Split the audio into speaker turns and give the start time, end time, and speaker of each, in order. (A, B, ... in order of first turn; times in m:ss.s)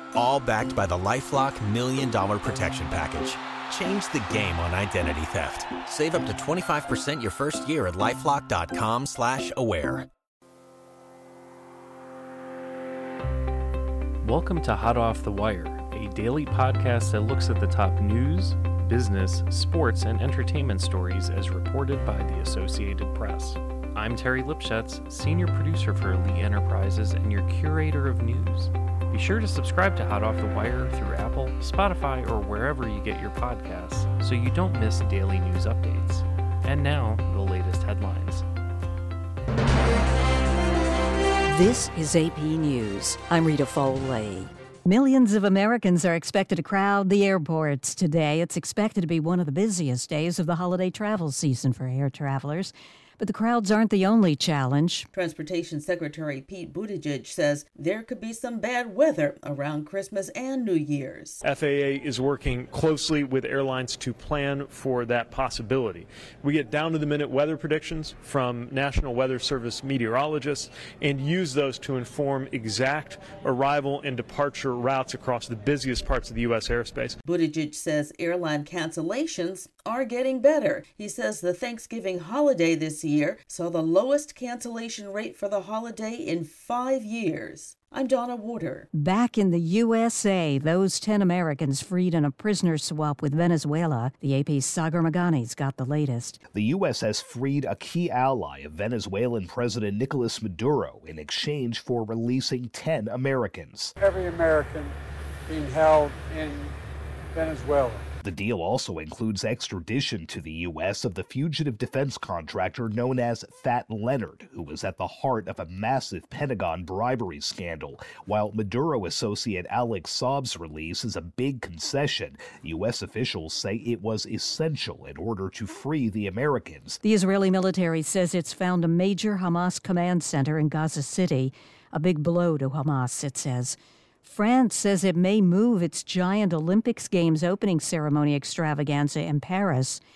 0:00.1-0:10.1 A
0:14.2-0:38.4 B
0:41.5-0:55.1 C
0:55.1-1:01.4 D
1:01.4-1:17.2 E
1:17.2-1:28.9 D
1:29.0-1:36.4 C
1:36.5-1:43.9 F
1:44.0-1:45.0 G
1:45.5-1:46.7 G
1:47.3-1:48.0 G
1:48.2-2:07.0 F
2:07.0-2:20.0 C